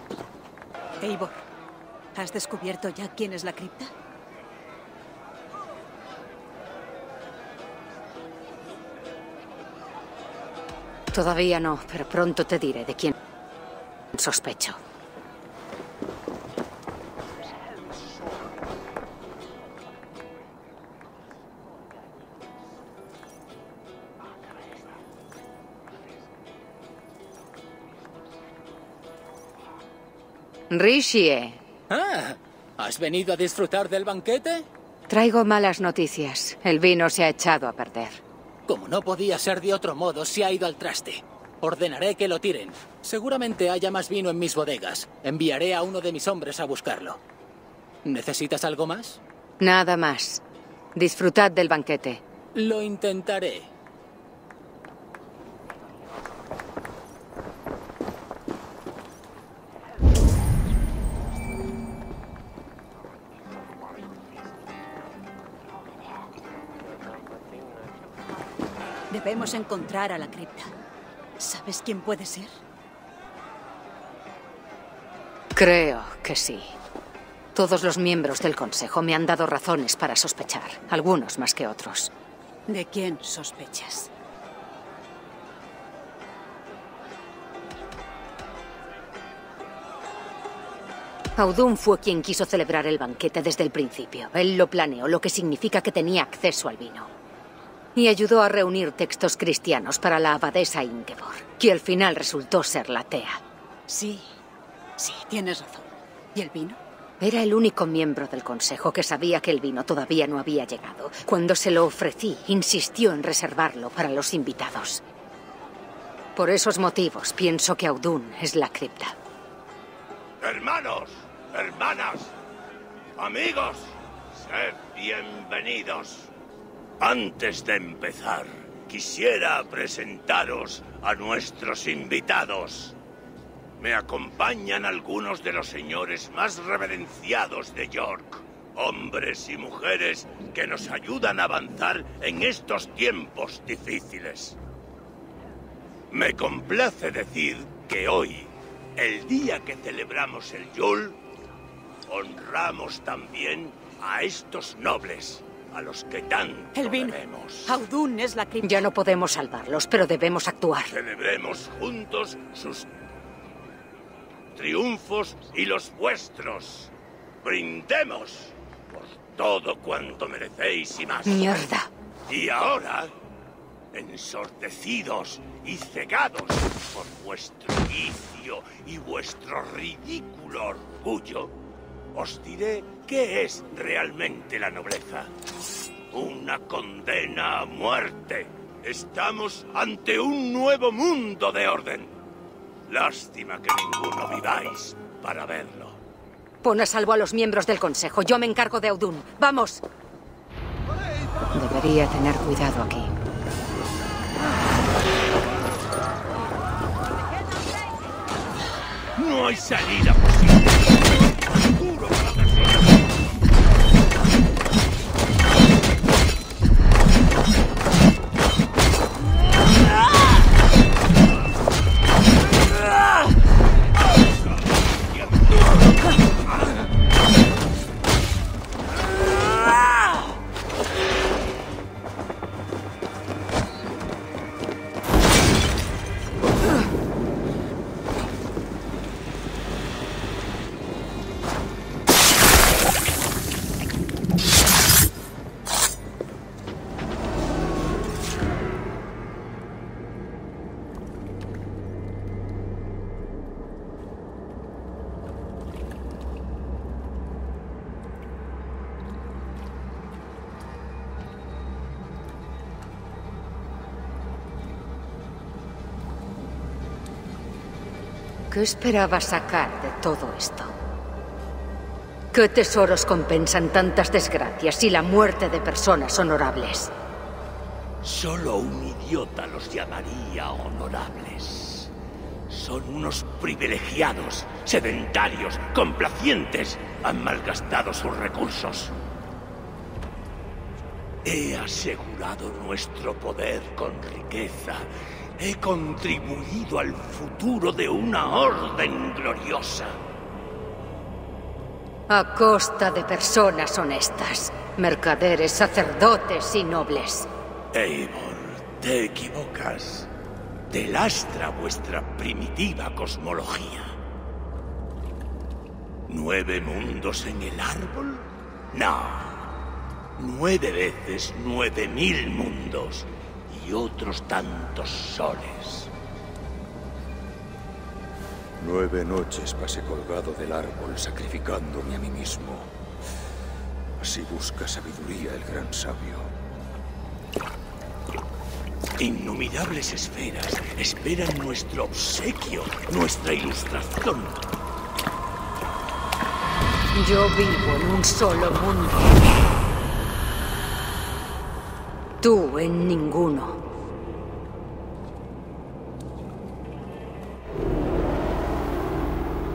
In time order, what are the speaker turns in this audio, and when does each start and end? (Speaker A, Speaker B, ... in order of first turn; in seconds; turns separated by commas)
Speaker A: 1.0-1.4, Speaker A: 2.1-3.9, Speaker B: 11.1-13.2, Speaker B: 14.1-14.8, Speaker B: 30.7-31.6, Speaker C: 31.9-34.7, Speaker B: 35.1-38.2, Speaker C: 38.7-47.2, Speaker C: 48.0-49.2, Speaker B: 49.6-50.4, Speaker B: 51.0-52.2, Speaker C: 52.5-53.7, Speaker A: 69.1-70.7, Speaker A: 71.4-72.5, Speaker B: 75.5-76.7, Speaker B: 77.5-82.1, Speaker A: 82.7-84.1, Speaker B: 91.3-97.1, Speaker B: 98.0-103.4, Speaker A: 103.9-104.3, Speaker A: 105.0-106.8, Speaker B: 107.2-115.0, Speaker B: 116.4-119.2, Speaker D: 120.4-122.3, Speaker D: 123.2-126.3, Speaker D: 127.0-132.9, Speaker D: 133.8-144.6, Speaker D: 146.1-151.2, Speaker D: 152.1-157.8, Speaker A: 156.8-158.9, Speaker B: 158.6-160.9, Speaker D: 160.9-162.9, Speaker D: 164.6-171.7, Speaker B: 171.2-171.9, Speaker D: 172.3-173.1, Speaker D: 173.9-181.5, Speaker D: 182.1-185.3, Speaker D: 186.1-192.2, Speaker D: 192.9-196.0, Speaker B: 196.6-199.8, Speaker B: 201.5-203.2, Speaker D: 209.2-212.8, Speaker D: 225.2-225.6, Speaker B: 268.5-270.7, Speaker B: 272.3-276.9, Speaker D: 278.0-281.9, Speaker D: 282.5-288.9, Speaker D: 291.2-300.0, Speaker B: 302.1-307.3, Speaker D: 307.7-310.1, Speaker D: 310.7-313.9, Speaker D: 316.1-319.5, Speaker D: 320.2-325.9, Speaker E: 328.6-332.7, Speaker E: 334.0-336.3, Speaker D: 339.0-344.4, Speaker B: 346.9-349.1, Speaker B: 352.2-353.6